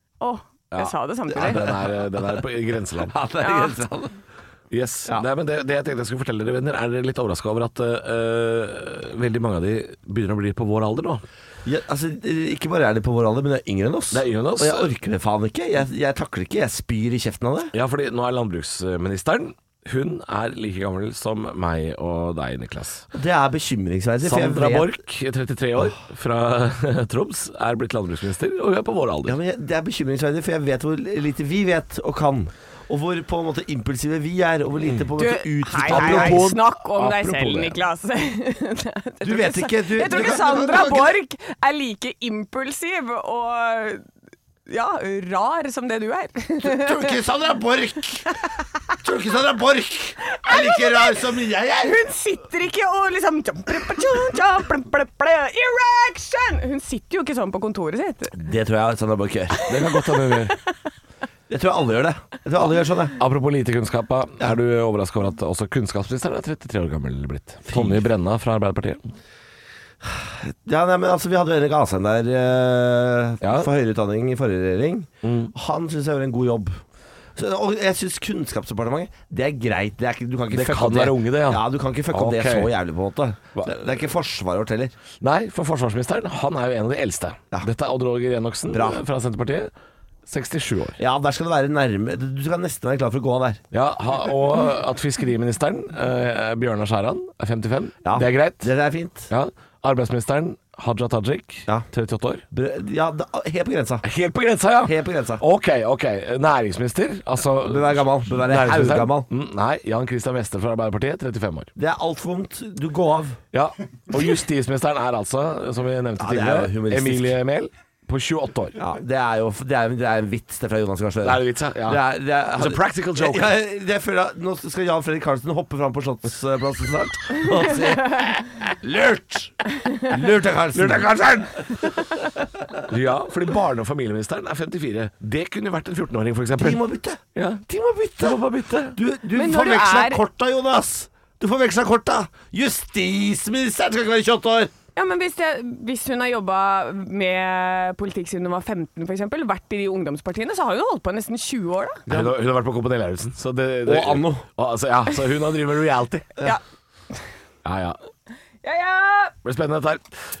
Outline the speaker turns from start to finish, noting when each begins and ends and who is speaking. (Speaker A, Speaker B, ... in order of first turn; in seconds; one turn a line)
Speaker A: 0.2-1.6
Speaker B: 0.7-3.1
Speaker C: 1.3-2.4
Speaker C: 3.0-4.1
Speaker A: 3.4-3.8
Speaker B: 4.7-11.2
Speaker C: 11.6-17.7
Speaker B: 14.1-14.9
Speaker B: 17.7-23.1
Speaker C: 23.1-25.0
Speaker B: 24.2-29.4
Speaker C: 29.2-36.5
Speaker A: 35.2-44.0
Speaker B: 35.9-37.8
Speaker C: 39.2-41.1
Speaker A: 44.7-47.1
Speaker C: 46.6-48.3
Speaker C: 49.0-52.0
Speaker A: 50.4-58.4
Speaker C: 58.3-59.6
Speaker B: 59.7-60.5
Speaker A: 60.0-60.4
Speaker C: 61.5-63.2
Speaker B: 63.2-69.0
Speaker C: 67.7-68.1
Speaker C: 70.0-76.8
Speaker B: 73.4-73.7
Speaker B: 75.2-75.5
Speaker C: 77.3-84.9
Speaker B: 80.5-82.7
Speaker B: 85.2-89.7
Speaker C: 88.7-89.0
Speaker B: 90.2-91.0
Speaker C: 91.0-93.6
Speaker B: 93.7-98.7
Speaker C: 98.0-99.3
Speaker B: 99.3-102.4
Speaker C: 102.5-104.0
Speaker B: 104.0-111.7
Speaker C: 104.8-105.4
Speaker C: 107.6-109.3
Speaker C: 111.8-113.4
Speaker B: 113.5-118.8
Speaker C: 116.2-117.4
Speaker C: 118.8-131.1
Speaker B: 121.2-123.5
Speaker B: 130.7-131.8
Speaker B: 132.9-136.8
Speaker C: 136.6-138.4
Speaker B: 137.3-139.0
Speaker C: 138.9-144.7
Speaker A: 139.3-140.2
Speaker A: 144.9-152.0
Speaker C: 152.1-152.3
Speaker B: 152.1-156.3
Speaker C: 153.8-154.4
Speaker B: 157.6-158.0
Speaker A: 158.6-159.3
Speaker B: 159.4-160.1